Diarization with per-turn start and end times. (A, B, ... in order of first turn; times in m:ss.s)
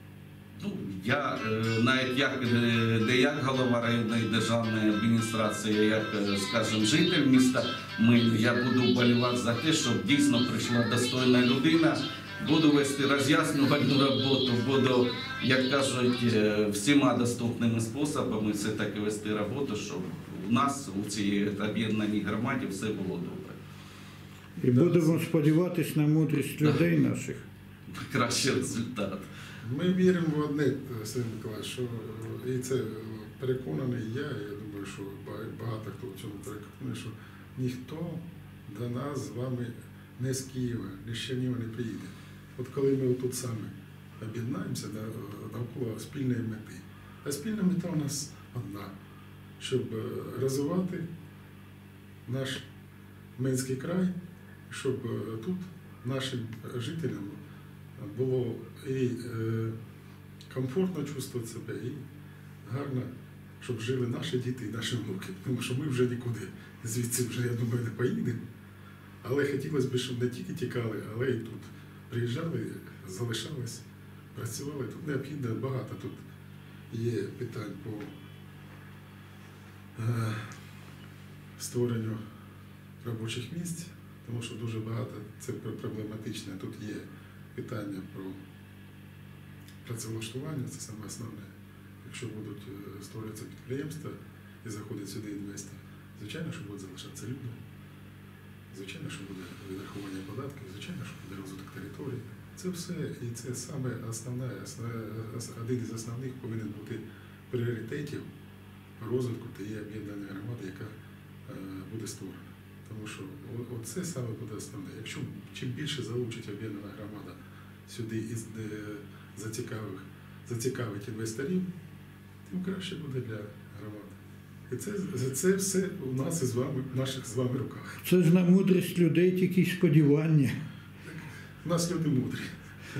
0:00.6-0:23.6 A
0:24.6-0:27.4 B
0:24.7-0:25.2 C
0:27.9-0:29.3 A
0:29.6-0:48.9 C
0:49.6-0:51.0 C
0:52.2-0:52.6 C
0:53.4-0:54.1 C
0:54.7-0:57.4 C
0:58.0-0:59.7 C
1:00.5-1:02.0 C
1:02.6-1:08.4 C
1:09.2-1:16.2 C
1:16.9-1:18.1 C
1:20.0-1:20.6 C
1:21.6-1:22.2 C
1:23.0-1:28.4 C
1:29.8-1:31.5 C
1:32.0-1:37.6 C
1:38.7-1:48.3 C
1:49.0-1:50.9 C
1:51.4-2:01.6 C
2:02.5-2:04.1 C
2:04.7-2:08.0 C
2:08.0-2:10.5 B
2:11.0-2:12.5 C